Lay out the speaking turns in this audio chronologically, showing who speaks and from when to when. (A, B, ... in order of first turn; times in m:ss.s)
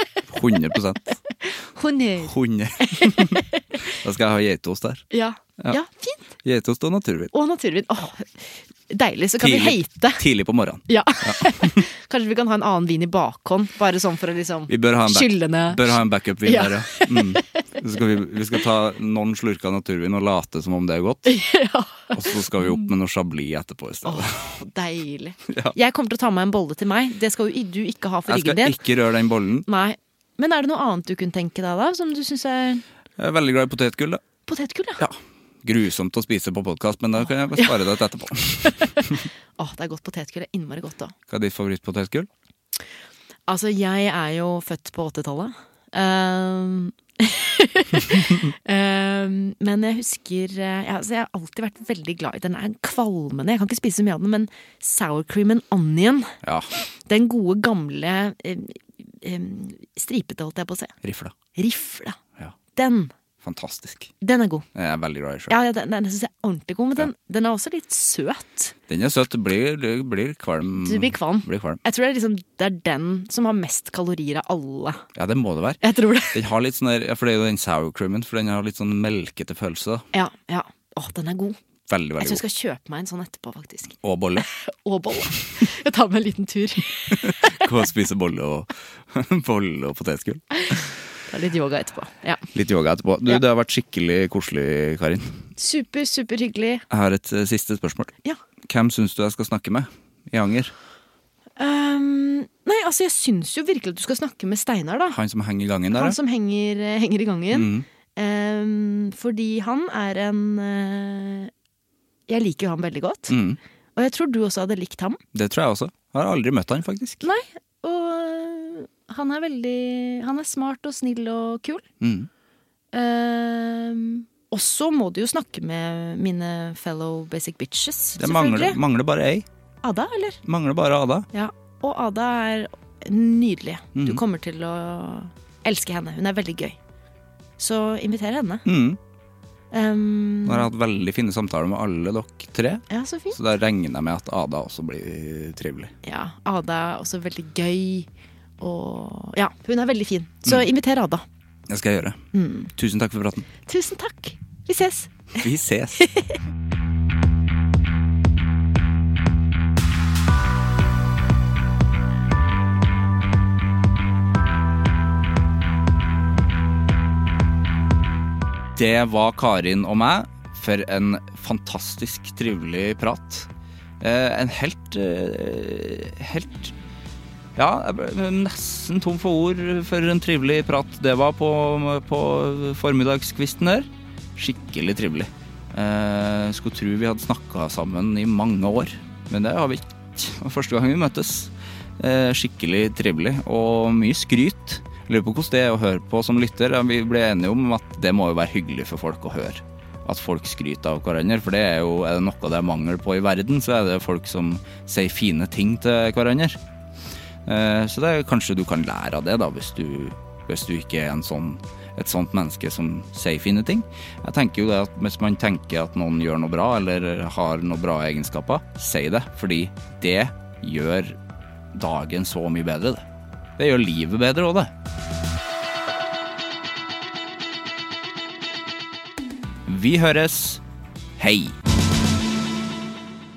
0:00.3-0:01.2 A
0:01.3-0:03.4 B
0:02.2-0:05.0 A
0:05.1-0:06.2 B
0:06.4-0:07.3 A
0:07.3-0:10.2 B
0:09.4-0:11.8 A
0:10.9-0:17.4 B
0:14.7-0:21.4 A
0:21.2-0:22.8 B
0:22.1-0:24.4 A
0:24.0-0:28.8 B
0:25.5-0:25.7 A
0:28.3-0:29.7 A
0:29.6-0:32.8 B
0:33.2-0:34.2 A
0:34.4-0:35.0 B
0:35.0-0:39.2 A
0:38.8-0:41.1 B
0:41.3-0:42.3 A
0:43.5-1:00.9 B
0:56.4-0:56.7 A
1:01.0-1:01.3 A
1:01.5-1:02.2 B
1:02.7-1:03.1 B
1:03.4-1:04.1 A
1:04.2-1:04.7 B
1:04.7-1:05.5 A
1:05.5-1:08.7 B
1:08.9-1:11.8 A
1:10.8-1:15.0 B
1:15.1-1:15.8 A
1:15.8-1:16.4 B
1:16.3-1:20.0 A
1:20.1-1:21.6 B
1:21.9-1:22.4 A
1:22.2-1:27.7 B
1:24.0-1:24.5 A
1:27.1-1:30.9 A
1:31.3-1:32.5 B
1:32.5-1:35.5 A
1:35.6-1:36.8 B
1:36.9-1:38.1 A
1:38.7-1:40.7 A
1:41.6-1:45.2 B
1:45.1-1:46.2 A
1:45.9-1:51.5 B
1:47.5-1:47.8 A
1:52.3-1:53.3 B
1:53.3-1:53.6 A
1:53.9-1:55.2 B
1:55.3-1:57.2 A
1:57.2-2:01.8 B
2:02.0-2:02.3 A
2:02.9-2:08.8 B
2:08.2-2:09.4 A
2:09.8-2:10.4 B
2:10.4-2:11.3 A
2:11.3-2:16.8 B
2:13.9-2:14.2 A
2:17.6-2:18.6 B
2:18.6-2:19.0 A
2:19.7-2:20.7 B
2:20.4-2:25.9 A
2:22.9-2:23.4 B
2:26.0-2:31.2 B
2:31.7-2:33.4 A
2:32.3-2:32.7 B
2:33.6-2:35.4 B
2:35.3-2:36.0 A
2:36.0-2:36.4 B
2:48.7-2:53.5 A
2:54.0-2:56.7 A
2:57.6-3:26.6 A
3:27.4-3:41.2 A
3:41.7-3:43.0 A
3:43.6-3:44.7 A
3:49.7-3:50.6 A
3:51.2-3:51.6 A